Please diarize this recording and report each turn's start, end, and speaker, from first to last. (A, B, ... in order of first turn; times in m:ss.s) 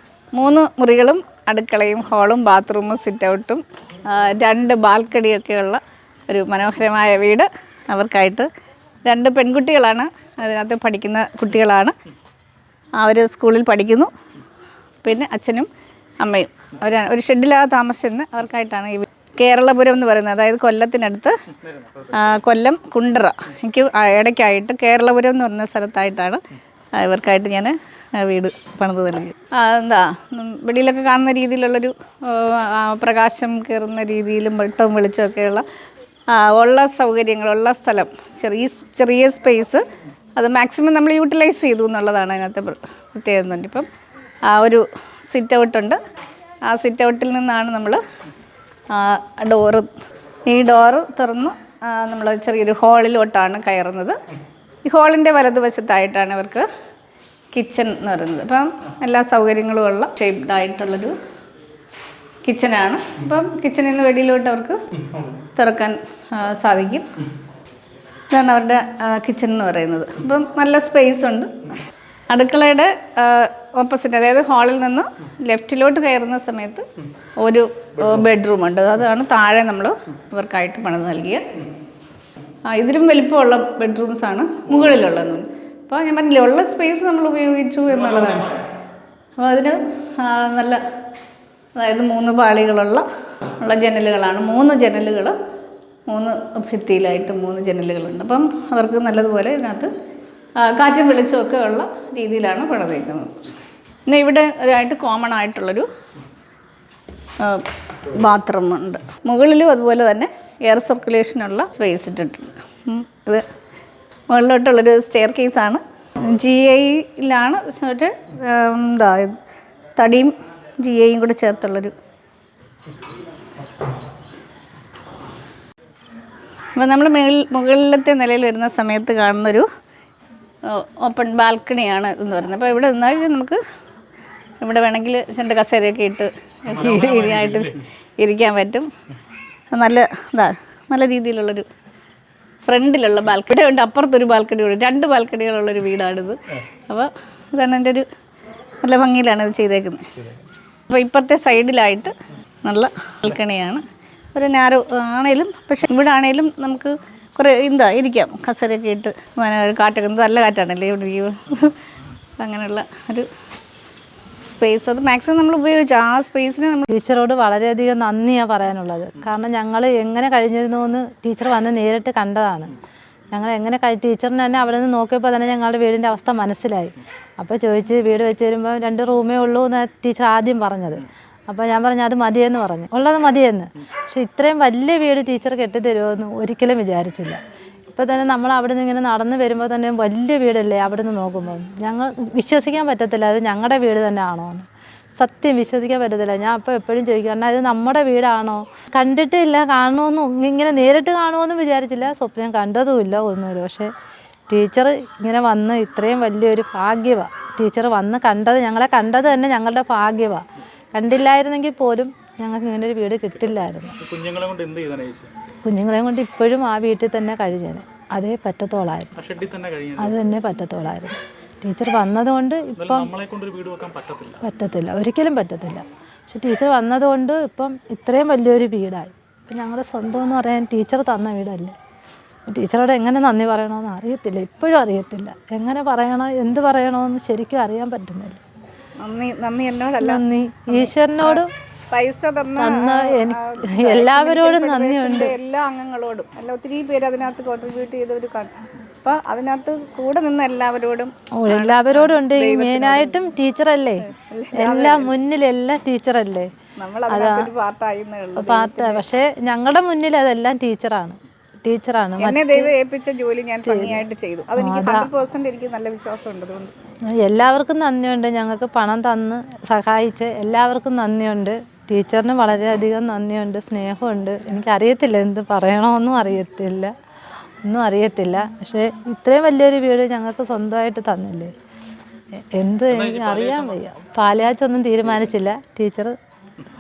0:00.4-0:08.5 A
0:09.0-0:12.0 A
0:13.0-0:14.1 A
0:15.0-0:15.7 A
0:16.2-0:21.4 A
0:21.6-0:22.2 B
0:22.1-0:26.4 A
0:27.0-0:35.6 A
0:36.3-0:39.8 A
0:40.4-0:43.9 A
0:44.5-0:46.0 A
0:46.7-0:48.0 A
0:48.9-0:49.9 A
0:50.5-0:54.2 A
0:54.9-0:56.7 A
0:57.5-1:01.2 A
1:02.4-1:04.8 A
1:05.5-1:07.1 A
1:08.3-1:11.7 A
1:12.3-1:16.8 A
1:17.4-1:21.4 A
1:22.7-1:28.6 A
1:29.4-1:30.8 A
1:31.8-1:35.4 A
1:36.1-1:39.9 A
1:40.6-1:43.5 A
1:44.1-1:45.9 A
1:47.4-1:53.4 A
1:54.3-1:59.4 A
2:00.0-2:01.9 A
2:06.8-2:09.7 A
2:10.6-2:13.6 A
2:14.6-2:18.9 A
2:17.0-2:17.5 B
2:19.7-2:21.7 A
2:22.6-2:28.1 A
2:28.8-2:30.2 A
2:30.9-2:32.1 A
2:32.6-2:33.8 A
2:34.4-2:41.8 A
2:42.4-2:43.3 A
2:44.4-2:46.9 A
2:46.9-2:52.7 C
2:53.3-3:14.7 C
3:15.2-3:23.9 C
3:24.5-3:30.4 C
3:30.9-3:34.0 C
3:34.0-3:35.3 B
3:35.6-3:39.2 C
3:39.2-3:40.1 B
3:40.0-3:43.1 C
3:42.8-3:44.4 B
3:44.4-3:51.7 C
3:52.5-3:58.4 C
3:59.0-4:13.2 A
4:00.0-4:01.5 C
4:02.6-4:05.4 C
4:11.4-4:16.5 C
4:14.1-4:15.1 A
4:16.8-4:19.0 A
4:17.1-4:17.5 C
4:18.4-4:22.7 C
4:22.2-4:26.7 A
4:23.7-4:24.0 C
4:24.6-4:25.1 C
4:27.2-4:36.9 C
4:37.6-4:41.5 C
4:42.4-4:46.1 C
4:42.9-4:43.8 B